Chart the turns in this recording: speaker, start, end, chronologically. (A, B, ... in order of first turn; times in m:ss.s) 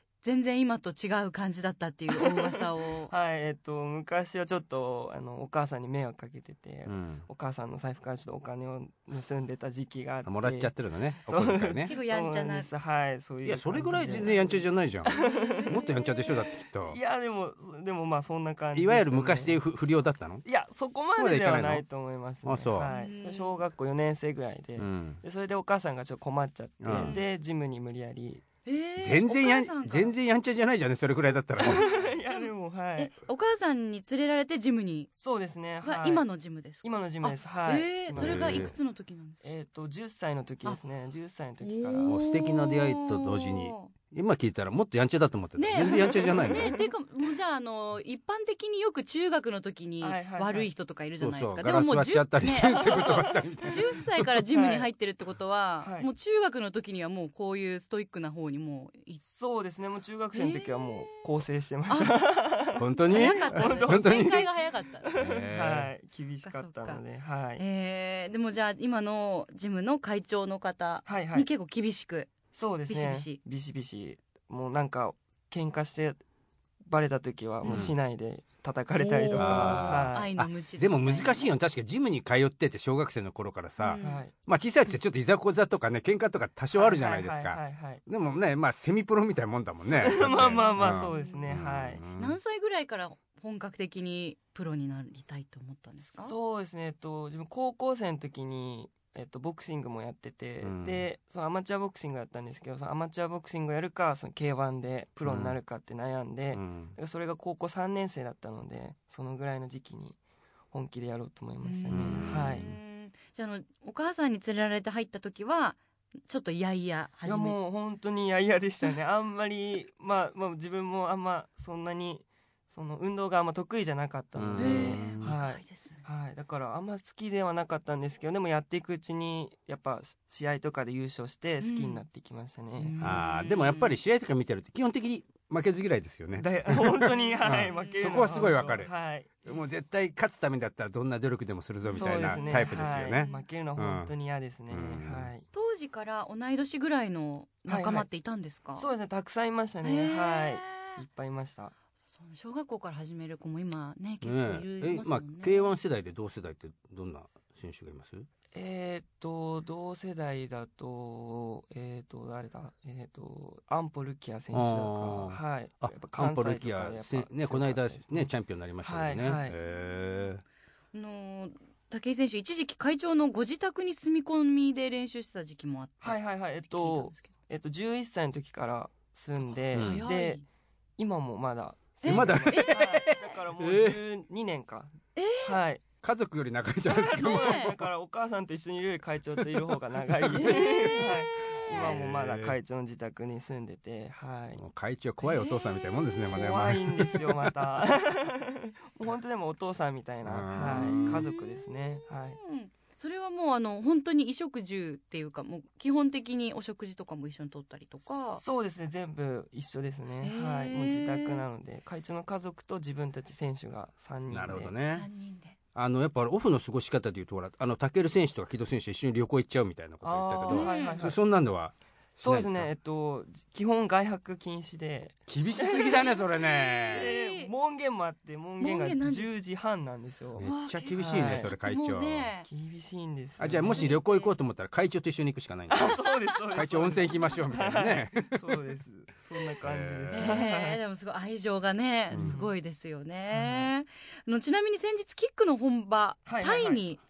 0:00.2-0:03.1 A
0:02.1-0:10.7 B
0:06.9-0:07.3 C
0:10.2-0:11.9 C
0:11.3-0:19.6 B
0:11.9-0:12.7 A
0:13.4-0:15.1 C
0:14.0-0:16.3 A
0:15.6-0:17.0 C
0:18.7-0:20.4 C
0:20.4-0:28.4 B
0:21.2-0:21.8 C
0:22.4-0:22.9 C
0:22.8-0:23.6 A
0:24.8-0:25.2 C
0:26.8-0:27.2 C
0:26.9-0:27.2 A
0:28.6-0:30.2 A
0:29.0-0:32.0 C
0:31.6-0:33.1 B
0:31.8-0:35.1 A
0:35.2-0:36.2 B
0:35.8-0:39.4 A
0:36.8-0:38.8 B
0:38.1-0:38.7 C
0:39.4-0:42.2 B
0:41.6-0:43.9 A
0:42.1-0:46.8 C
0:45.6-0:59.2 A
0:45.9-0:46.8 B
0:50.0-0:50.7 B
0:51.2-0:54.3 C
0:52.7-0:53.8 B
0:54.5-0:54.9 B
0:55.8-0:56.1 B
0:59.2-1:07.6 B
1:00.3-1:01.2 A
1:01.9-1:02.2 A
1:02.8-1:04.4 C
1:03.1-1:05.2 A
1:05.2-1:05.9 C
1:06.4-1:07.0 A
1:07.6-1:12.3 A
1:11.1-1:11.5 B
1:12.5-1:16.2 B
1:12.9-1:13.4 A
1:16.9-1:20.3 B
1:17.6-1:17.9 A
1:17.7-1:18.0 C
1:19.0-1:21.5 A
1:19.4-1:32.4 C
1:23.8-1:24.2 A
1:24.0-1:24.3 B
1:26.7-1:28.0 B
1:29.8-1:32.0 B
1:30.3-1:31.5 A
1:32.2-1:36.4 A
1:36.1-1:50.2 B
1:40.6-1:41.1 C
1:45.3-1:45.6 C
1:46.5-1:47.0 C
1:50.7-1:52.7 B
1:51.6-1:57.6 A
1:51.9-1:52.8 C
1:57.2-2:13.0 B
2:04.4-2:05.4 C
2:04.6-2:06.0 A
2:11.6-2:12.0 A
2:12.8-2:14.0 A
2:13.0-2:18.9 C
2:16.4-2:19.4 B
2:17.2-2:18.3 A
2:19.4-2:24.1 C
2:21.8-2:23.5 A
2:21.9-2:25.4 B
2:24.7-2:25.3 C
2:25.5-2:28.9 A
2:27.7-2:28.1 B
2:28.8-2:31.7 B
2:29.8-2:31.0 A
2:32.1-2:35.7 A
2:34.2-2:38.3 C
2:38.5-2:49.6 B
2:44.5-2:50.4 C
2:49.6-2:50.3 A
2:50.9-2:57.3 A
2:56.0-3:00.4 B
2:59.7-3:00.0 C
2:59.8-3:00.4 A
3:01.0-3:05.8 B
3:02.0-3:03.2 A
3:02.0-3:04.0 C
3:05.2-3:05.6 A
3:06.0-3:07.9 C
3:06.9-3:14.6 B
3:07.1-3:07.7 A
3:09.6-3:11.2 C
3:10.3-3:11.9 A
3:11.7-3:12.6 C
3:14.6-3:17.6 C
3:15.2-3:16.0 A
3:16.3-3:22.4 B
3:20.2-3:21.2 C
3:20.6-3:28.4 A
3:28.2-3:34.7 B
3:30.2-3:31.4 A
3:34.3-3:35.1 C
3:34.9-3:35.6 A
3:35.8-3:42.7 C
3:40.0-3:41.2 B
3:40.5-3:41.1 A
3:42.2-3:46.1 B
3:45.3-3:47.1 C
3:45.6-3:47.5 A
3:46.9-3:51.5 B
3:48.6-3:49.3 A
3:50.4-3:52.3 C
3:50.4-3:52.5 A
3:52.5-3:54.0 B
3:53.4-3:58.6 C
3:53.6-3:54.4 A
3:55.7-4:00.8 B
3:59.6-4:00.4 C
4:00.1-4:07.0 A
4:02.1-4:02.4 C
4:02.2-4:02.5 B
4:03.3-4:03.7 B
4:06.3-4:06.8 B